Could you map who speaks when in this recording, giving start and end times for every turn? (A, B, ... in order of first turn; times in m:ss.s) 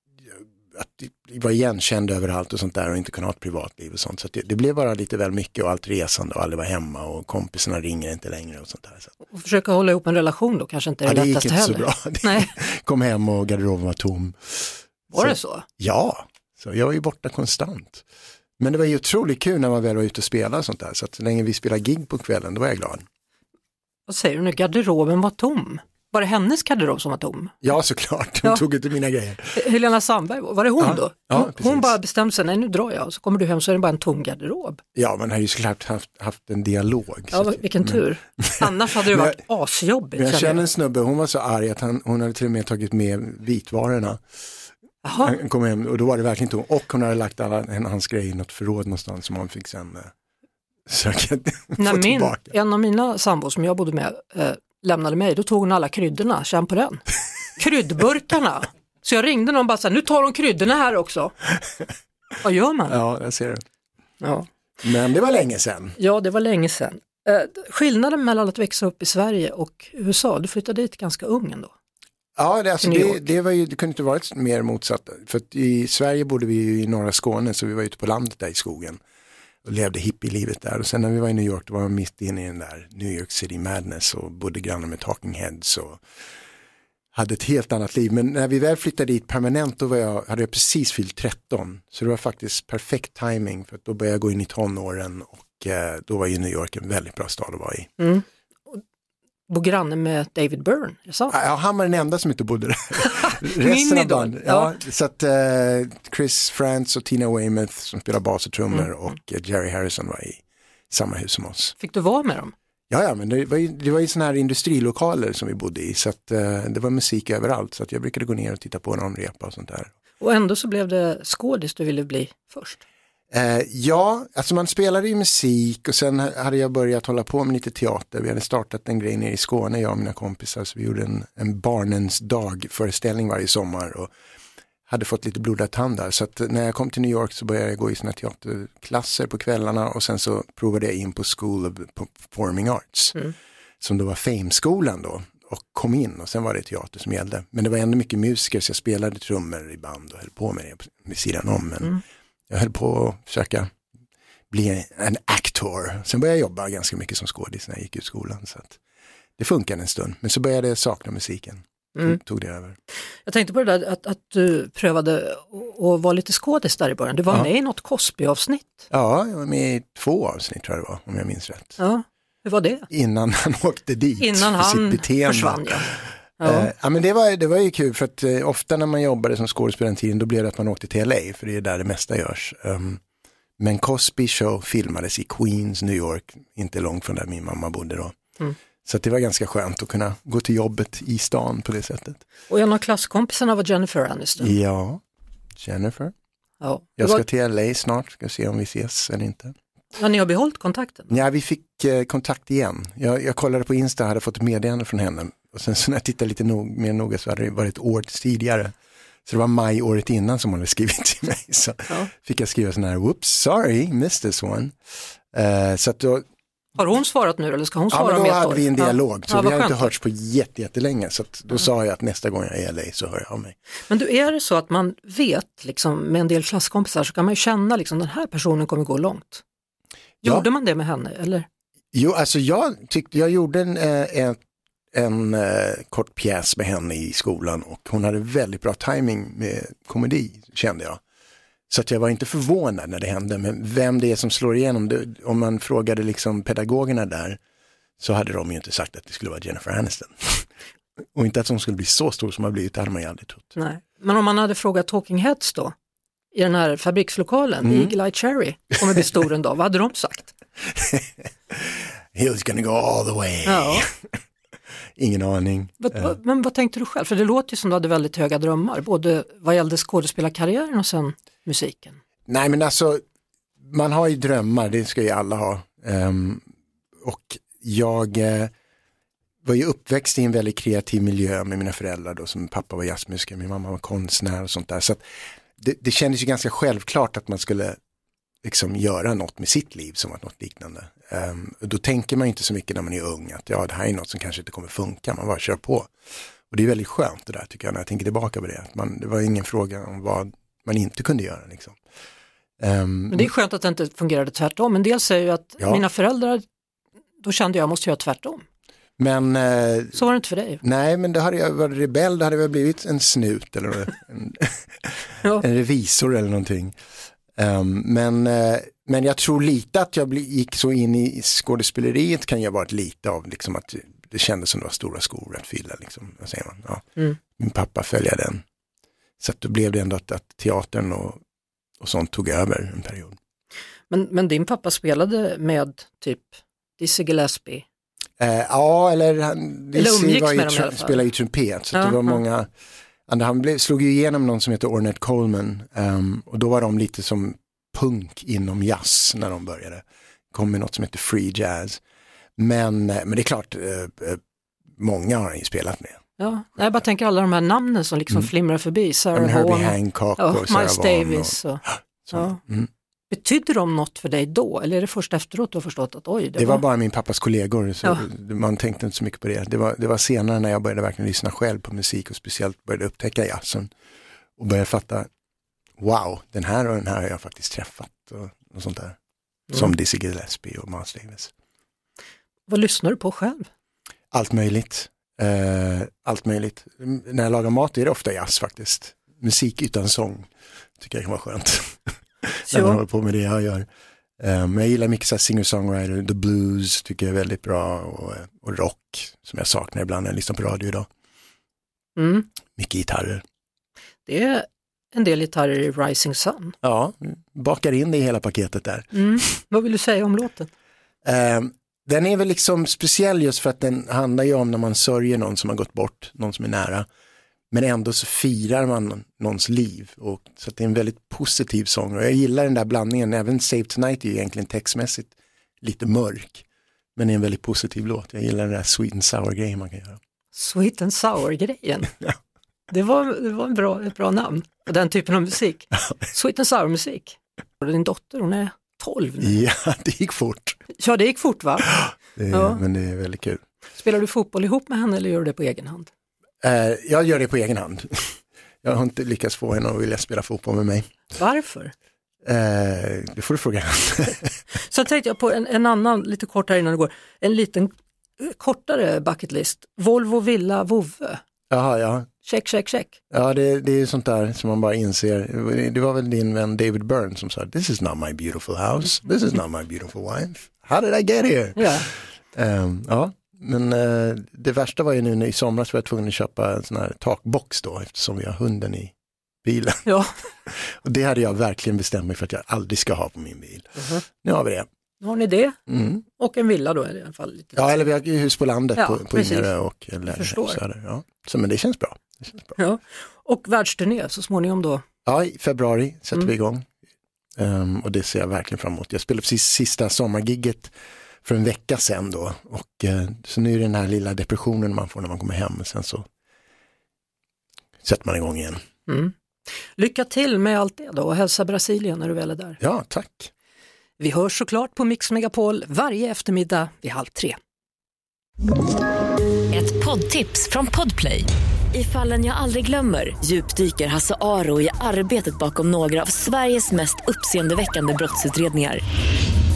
0:00.7-0:09.1 A
0:09.3-0:12.5 B
0:11.0-0:18.0 A
0:15.1-0:15.6 B
0:18.6-0:23.0 A
0:24.1-0:27.6 B
0:27.6-0:29.6 A
0:29.5-0:34.8 B
0:30.8-0:31.9 A
0:34.9-0:39.4 A
0:37.3-0:40.6 B
0:40.1-0:44.2 A
0:45.0-0:45.4 B
0:45.2-0:50.1 A
0:50.9-0:52.5 A
0:51.8-0:57.0 B
0:57.6-1:01.3 B
1:02.4-1:03.0 B
1:02.9-1:03.6 A
1:04.2-1:04.5 B
1:04.8-1:06.0 A
1:06.0-1:11.7 B
1:12.4-1:19.0 A
1:12.8-1:13.2 B
1:19.6-1:26.0 A
1:27.1-1:37.9 A
1:38.0-1:38.8 B
1:39.5-1:41.4 B
1:41.3-1:51.7 A
1:43.2-1:44.7 B
1:51.8-1:52.5 B
1:52.9-1:59.9 A
2:00.2-2:02.8 B
2:03.3-2:14.1 A
2:14.9-2:33.7 A
2:34.5-2:38.8 A
2:39.4-2:42.8 A
2:43.2-2:48.8 B
2:48.9-2:51.8 A
2:51.8-2:52.9 B
2:52.9-3:03.0 A
2:54.2-2:56.7 B
3:03.6-3:08.2 A
3:08.8-3:12.2 A
3:12.5-3:14.5 B
3:14.4-3:15.0 A
3:15.6-3:16.1 A
3:16.6-3:17.2 B
3:17.0-3:19.5 A
3:19.9-3:21.1 B
3:21.1-3:28.7 A
3:29.2-3:34.7 A
3:35.3-3:36.2 A
3:36.8-3:39.9 B
3:37.9-3:43.5 A
3:43.9-3:49.4 B
3:50.2-3:51.4 B
3:51.9-3:54.4 A
3:54.9-4:01.0 A
4:01.7-4:07.4 A
4:08.0-4:10.4 A
4:11.1-4:13.5 A
4:13.6-4:15.7 B
4:16.3-4:20.3 B
4:17.6-4:17.9 A
4:20.8-4:23.8 A
4:23.4-4:23.9 B
4:25.0-4:26.1 A
4:25.8-4:32.0 B
4:32.3-4:33.0 A
4:33.7-4:36.4 A
4:37.0-4:38.5 A
4:39.4-4:45.0 A
4:45.6-4:47.8 A
4:48.4-4:55.9 A
4:56.5-5:01.8 A
5:02.6-5:03.3 A
5:03.1-5:06.4 B
5:05.6-5:05.8 A
5:07.2-5:08.4 B
5:09.0-5:10.0 A
5:09.9-5:10.6 B
5:10.6-5:16.7 A
5:17.3-5:28.4 A
5:29.2-5:31.2 A
5:31.8-5:33.2 A
5:33.9-5:37.6 B
5:38.2-5:42.5 A
5:39.7-5:41.0 B
5:41.7-5:42.2 B
5:43.1-5:51.8 A
5:52.4-5:54.2 A
5:54.8-5:56.0 A
5:56.2-6:02.4 B
5:59.1-6:02.7 A
6:03.1-6:06.6 B
6:06.4-6:13.7 A
6:14.4-6:15.1 A
6:15.8-6:19.0 A
6:19.5-6:21.3 A
6:22.5-6:23.5 B
6:24.1-6:33.6 A
6:32.5-6:32.8 B
6:34.2-6:40.9 A
6:42.0-6:42.3 B
6:42.5-6:43.2 A
6:44.0-6:46.6 B
6:46.6-6:49.3 A
6:48.9-6:50.5 B
6:51.0-6:56.8 A
6:57.5-7:06.4 A
7:07.0-7:10.0 A
7:10.3-7:11.9 B
7:12.7-7:19.4 B
7:19.2-7:20.6 A
7:20.7-7:21.7 B
7:21.8-7:23.4 A
7:22.3-7:22.6 B
7:23.8-7:25.9 B
7:26.4-7:30.9 A
7:31.1-7:31.7 B
7:32.2-7:34.3 A
7:34.5-7:41.2 B
7:41.5-7:42.1 A
7:42.2-7:43.0 B
7:43.1-7:59.8 A
7:51.6-7:51.9 B
7:59.8-8:00.1 B
8:00.5-8:04.7 A
8:05.0-8:07.6 B
8:05.7-8:06.0 A
8:07.5-8:12.6 A
8:08.8-8:09.5 B
8:10.1-8:10.6 B
8:12.6-8:14.8 B
8:15.0-8:16.6 A
8:17.4-8:20.7 A
8:21.2-8:26.0 A
8:27.8-8:28.6 A
8:28.9-8:29.1 B
8:29.8-8:32.6 B
8:32.6-8:33.3 A
8:34.0-8:37.4 B
8:39.5-8:48.8 C